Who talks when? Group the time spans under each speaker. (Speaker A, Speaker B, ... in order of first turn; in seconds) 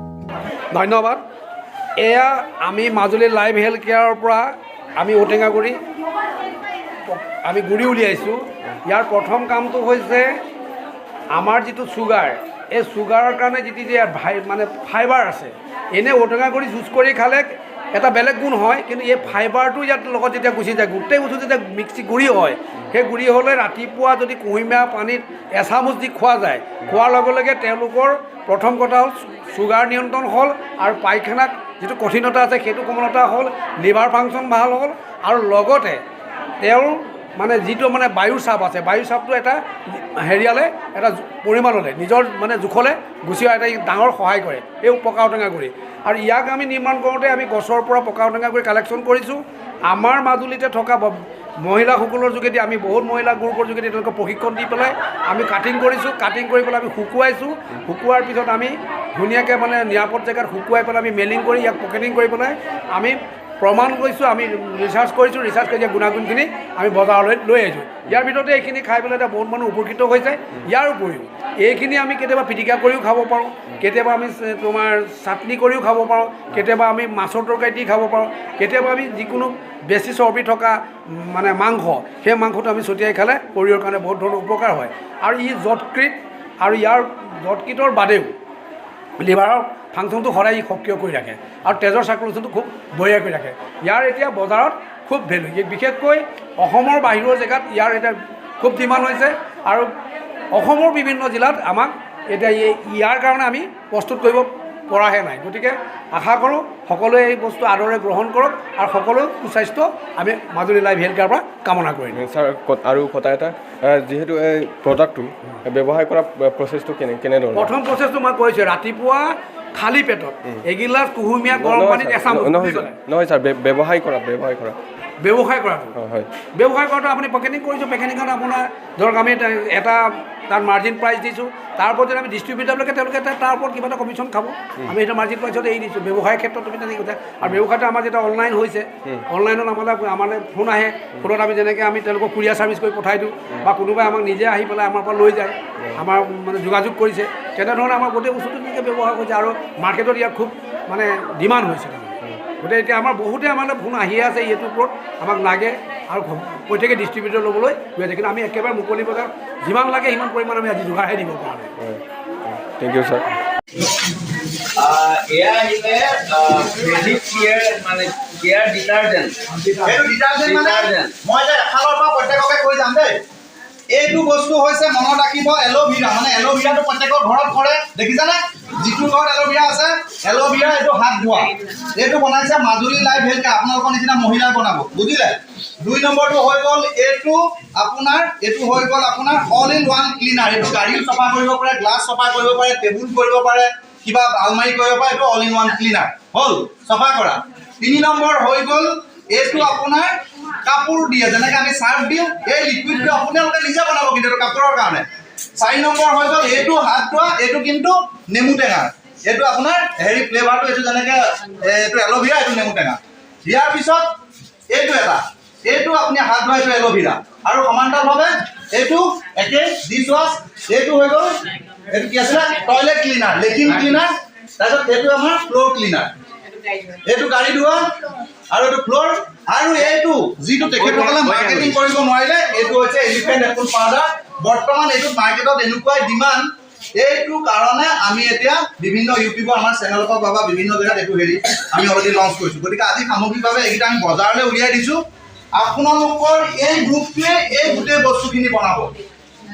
Speaker A: 0.7-1.2, 2.0-5.8, 7.1-10.3, 11.3-36.0, 36.6-88.3, 89.2-99.9, 100.5-112.2, 117.5-123.0, 125.2-126.0, 126.5-161.7
Speaker B: 112.1-117.7, 121.5-124.8, 126.0-126.3, 161.8-163.3
Speaker C: 164.8-171.1, 230.7-231.8
Speaker D: 169.8-173.2, 173.9-214.2, 214.7-221.3, 221.9-226.1, 226.9-245.0, 245.5-248.9